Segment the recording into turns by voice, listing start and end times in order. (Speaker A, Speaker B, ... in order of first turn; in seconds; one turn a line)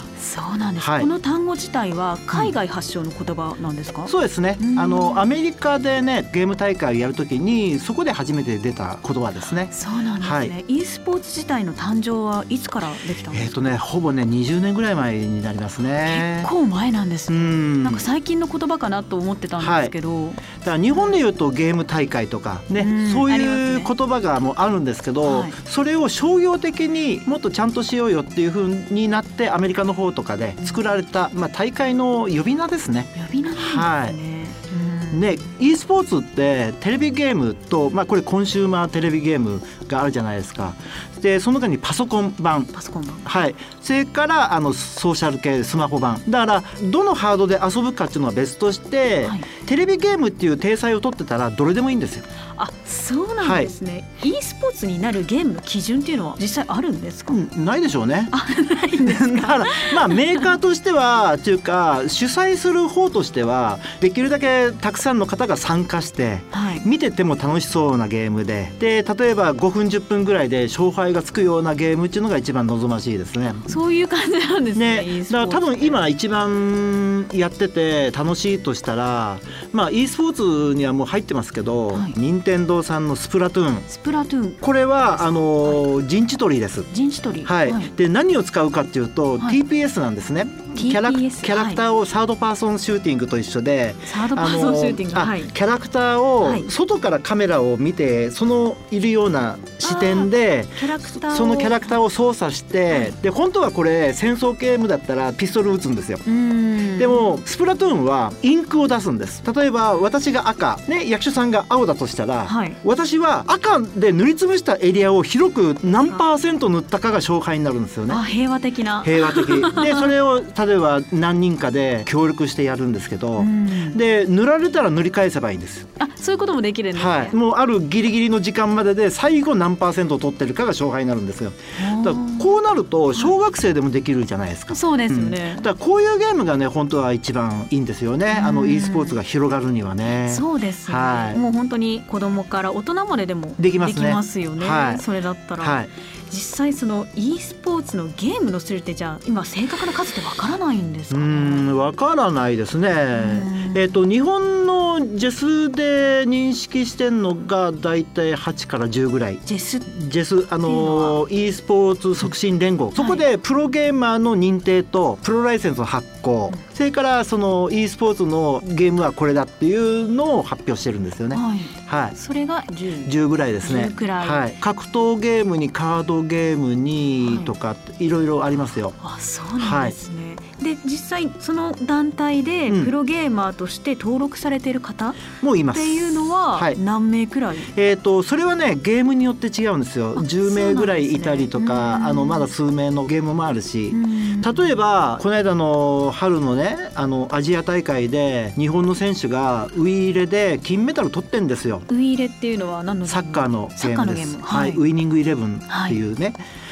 Speaker A: 0.2-5.2
Speaker B: 0.8-1.1
Speaker B: 4.1-10.5
Speaker A: 9.7-13.7
Speaker B: 13.3-16.5
Speaker A: 16.0-21.1
Speaker B: 17.3-18.1
Speaker B: 19.6-19.9
Speaker B: 20.6-34.2
Speaker A: 22.8-23.9
Speaker A: 25.2-25.6
Speaker A: 33.1-35.4
Speaker B: 35.1-52.2
Speaker A: 42.7-43.3
Speaker A: 52.6-57.4
Speaker B: 53.4-53.7
Speaker B: 57.3-58.4
Speaker A: 58.3-60.5
Speaker B: 58.9-73.8
Speaker A: 66.5-66.9
Speaker A: 73.7-76.0
Speaker B: 74.8-83.9
Speaker A: 83.9-84.6
Speaker B: 84.6-86.9
Speaker A: 85.3-85.8
Speaker A: 86.9-87.9
Speaker B: 87.4-106.3
Speaker A: 90.7-91.8
Speaker A: 94.1-95.5
Speaker A: 96.4-96.7
Speaker A: 99.8-102.0
Speaker A: 106.3-107.4
Speaker B: 106.9-118.2
Speaker A: 112.5-112.8
Speaker A: 118.1-120.1
Speaker B: 119.0-125.9
Speaker A: 123.4-124.0
Speaker A: 126.0-127.4
Speaker B: 127.0-141.4
Speaker A: 131.8-132.5
Speaker A: 134.7-135.7
Speaker A: 138.3-139.2
Speaker A: 140.1-151.7
Speaker B: 143.6-145.0
Speaker B: 145.6-145.9
Speaker B: 151.1-172.2
Speaker A: 153.2-153.8
Speaker A: 159.5-159.9
Speaker A: 160.7-161.2
Speaker A: 163.0-163.2
Speaker A: 171.3-174.5
Speaker B: 173.0-179.0
Speaker A: 177.2-177.5
Speaker A: 179.0-185.2
Speaker B: 179.6-180.0
Speaker B: 182.7-182.9
Speaker B: 185.4-186.8
Speaker A: 185.7-187.7
Speaker B: 187.7-201.9
Speaker A: 190.2-192.5
Speaker A: 193.9-194.7
Speaker A: 201.9-204.8
Speaker B: 203.1-206.4
Speaker A: 205.7-206.0